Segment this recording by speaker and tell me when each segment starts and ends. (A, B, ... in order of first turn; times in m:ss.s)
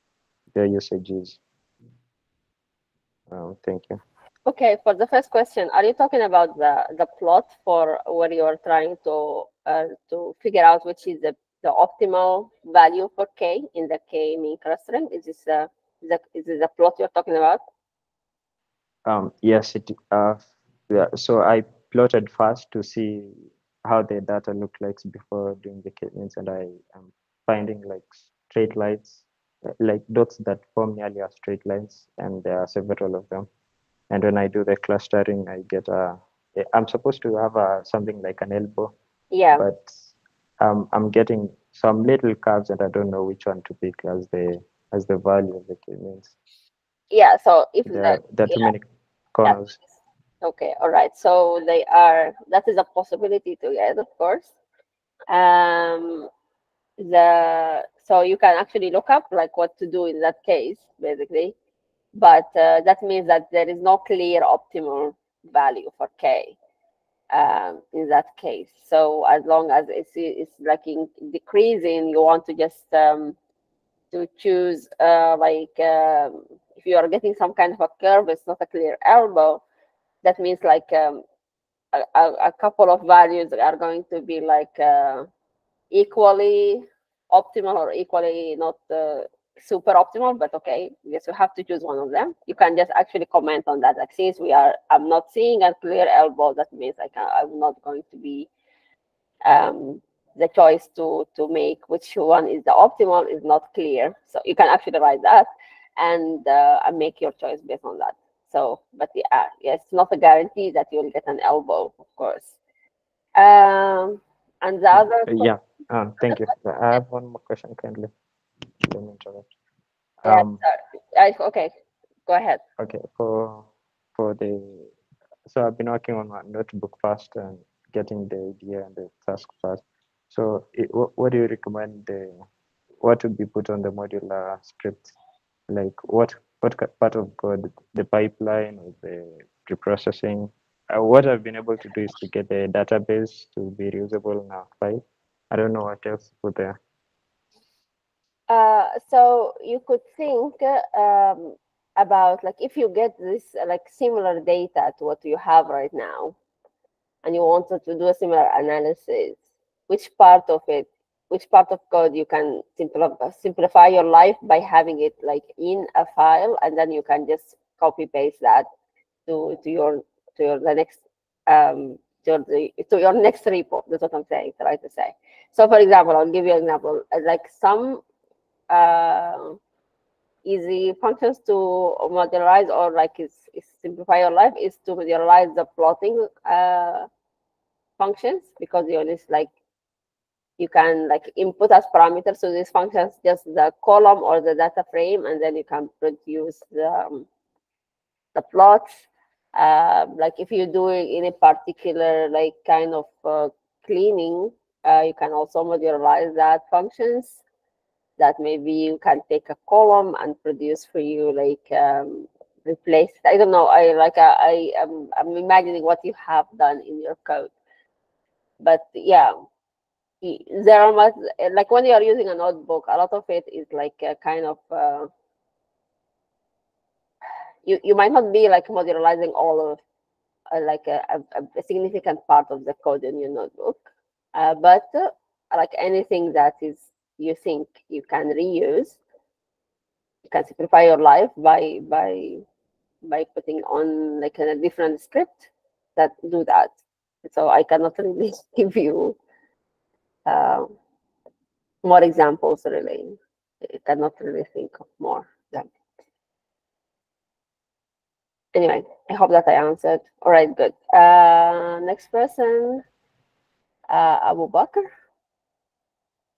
0:00.5-0:01.4 A
0:03.3-0:04.0 A
0:04.5-0:17.6 B
0:19.1-0:29.2 A
0:29.8-0:33.5 A
0:34.1-0:38.9 A
0:39.3-0:39.6 B
0:39.6-0:46.4 A
0:47.1-0:48.7 B
0:47.9-0:48.8 A
0:49.4-0:49.8 A
0:50.4-0:54.5 B
0:55.3-0:56.3 B
0:57.0-1:01.6 B
1:02.2-1:06.6 B
1:07.3-1:13.4 B
1:14.1-1:19.6 B
1:20.2-1:21.2 B
1:21.9-1:25.3 B
1:25.9-1:38.5 B
1:39.5-1:52.6 B
1:53.4-1:55.5 B
1:55.3-1:58.1 A
1:58.8-1:59.5 A
2:00.2-2:00.6 A
2:00.3-2:01.7 B
2:02.3-2:02.6 B
2:02.8-2:04.9 A
2:05.5-2:12.4 A
2:13.0-2:15.1 A
2:15.7-2:26.8 A
2:28.5-2:36.4 B
2:37.2-2:39.4 B
2:39.9-2:48.7 B
2:49.3-2:58.0 B
2:58.7-2:59.6 B
3:00.4-3:07.1 B
3:08.0-3:09.5 B
3:10.6-3:17.3 B
3:18.4-3:27.4 B
3:28.2-3:37.5 B
3:38.6-3:39.3 B
3:40.2-3:45.1 B
3:47.7-3:49.8 B
3:50.5-3:53.8 B
3:54.4-3:59.0 B
4:00.3-4:02.4 B
4:03.0-4:09.2 B
4:10.3-4:10.7 B
4:11.8-4:15.7 B
4:18.5-4:22.8 B
4:23.9-4:24.9 B